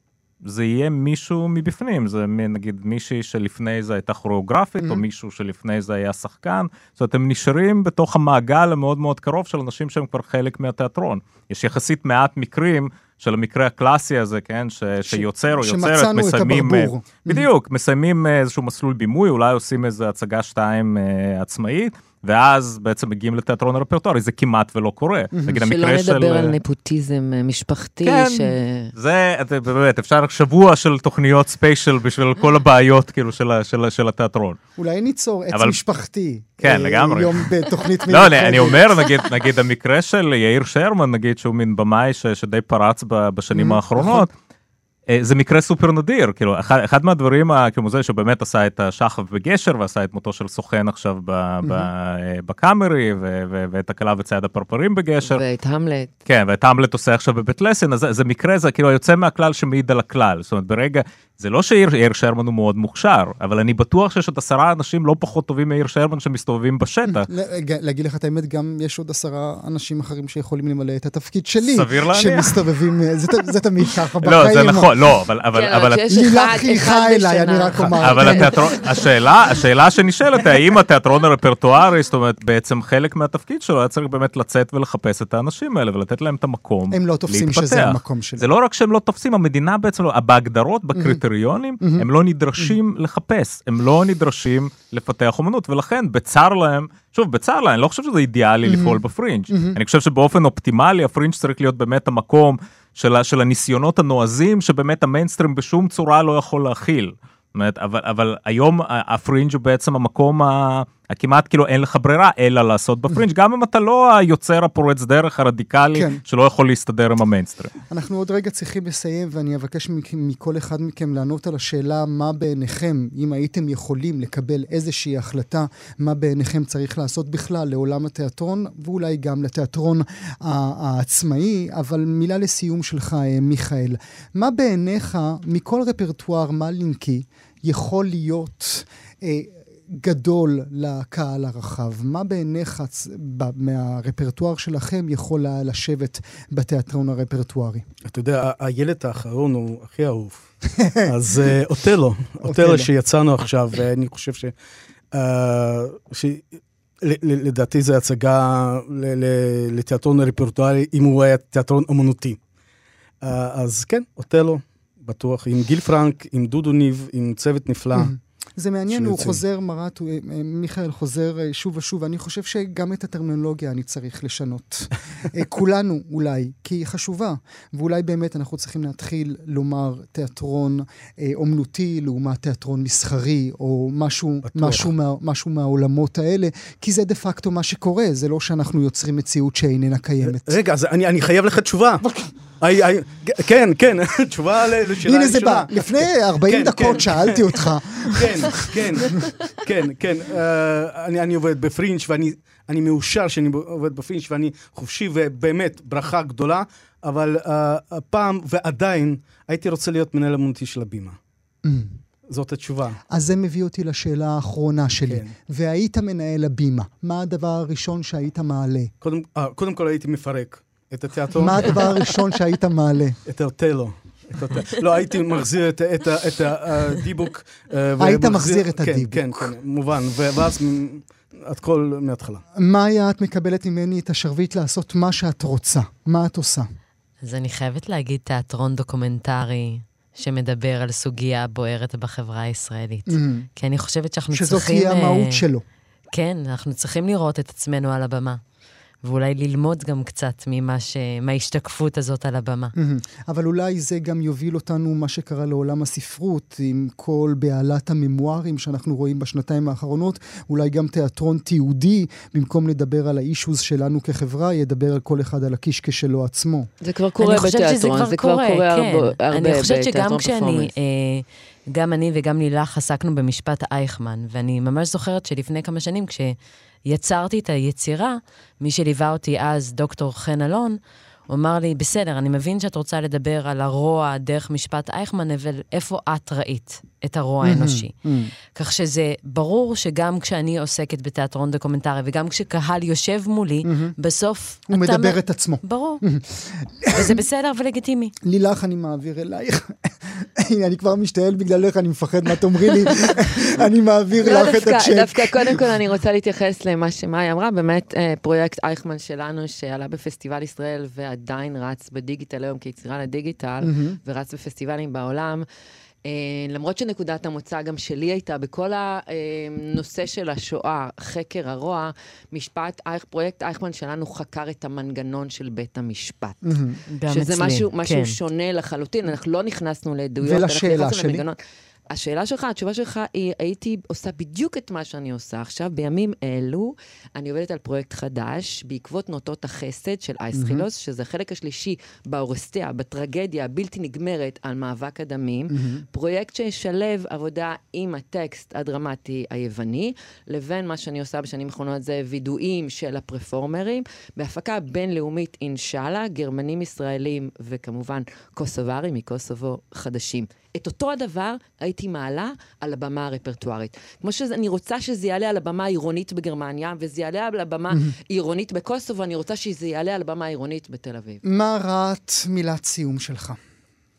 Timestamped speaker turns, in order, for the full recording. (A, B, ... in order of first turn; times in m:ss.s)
0:00.4-0:26.6 A
0:04.8-0:05.0 B
0:15.1-0:17.5 B
0:25.4-0:25.7 B
0:25.7-0:28.9 C
0:28.0-0:34.6 A
0:34.8-0:39.1 B
0:35.5-0:35.8 A
0:36.6-0:44.3 A
0:43.5-0:44.3 B
0:45.1-0:55.4 A
0:51.6-0:51.9 B
0:55.2-0:56.1 C
0:56.3-1:07.3 A
1:07.0-1:14.9 B
1:11.6-1:12.6 A
1:14.2-1:16.1 A
1:15.5-1:18.6 C
1:16.1-1:18.7 B
1:18.0-1:57.7 A
1:26.9-1:28.5 B
1:31.0-1:31.2 B
1:31.8-1:32.1 B
1:38.6-1:39.0 B
1:39.5-1:39.8 B
1:55.9-1:56.2 B
1:57.9-2:27.8 B
2:28.0-2:30.5 D
2:30.8-2:31.1 B
2:31.0-2:34.5 D
2:32.4-2:32.9 B
2:35.1-2:36.5 D
2:37.0-2:42.4 D
2:43.2-2:48.1 D
2:48.0-3:10.6 B
2:48.9-2:49.4 D
3:04.4-3:04.9 D
3:10.2-3:12.0 D
3:12.0-3:12.3 B
3:12.6-3:15.9 D
3:15.0-3:19.2 B
3:16.5-3:31.2 D
3:31.6-3:32.0 B
3:32.3-3:33.0 D
3:33.1-3:38.9 B
3:35.1-3:35.3 D
3:39.0-3:42.2 D
3:41.4-3:43.2 B
3:43.3-3:52.4 D
3:48.0-3:49.6 B
3:52.6-3:56.7 B
3:57.2-4:05.4 E
4:03.1-4:03.5 B
4:04.3-4:05.6 B
4:06.1-4:08.4 E
4:09.0-4:12.8 E
4:12.8-4:26.7 B
4:26.8-4:30.7 C
4:27.2-4:40.8 E
4:41.3-4:47.9 E
4:47.4-4:48.3 B
4:48.5-4:56.0 E
4:53.6-4:54.0 B
4:54.7-4:57.2 B
4:56.9-4:58.1 E
4:58.2-5:05.7 B
5:04.2-5:15.5 C
5:13.6-5:14.0 B
5:16.0-5:26.5 C
5:26.4-5:26.8 B
5:26.9-5:28.2 E
5:27.1-5:31.4 C
5:30.2-5:31.2 B
5:31.9-6:11.2 C
5:40.3-5:40.7 B
5:45.5-5:45.8 B
6:07.7-6:08.0 B
6:11.2-6:13.4 B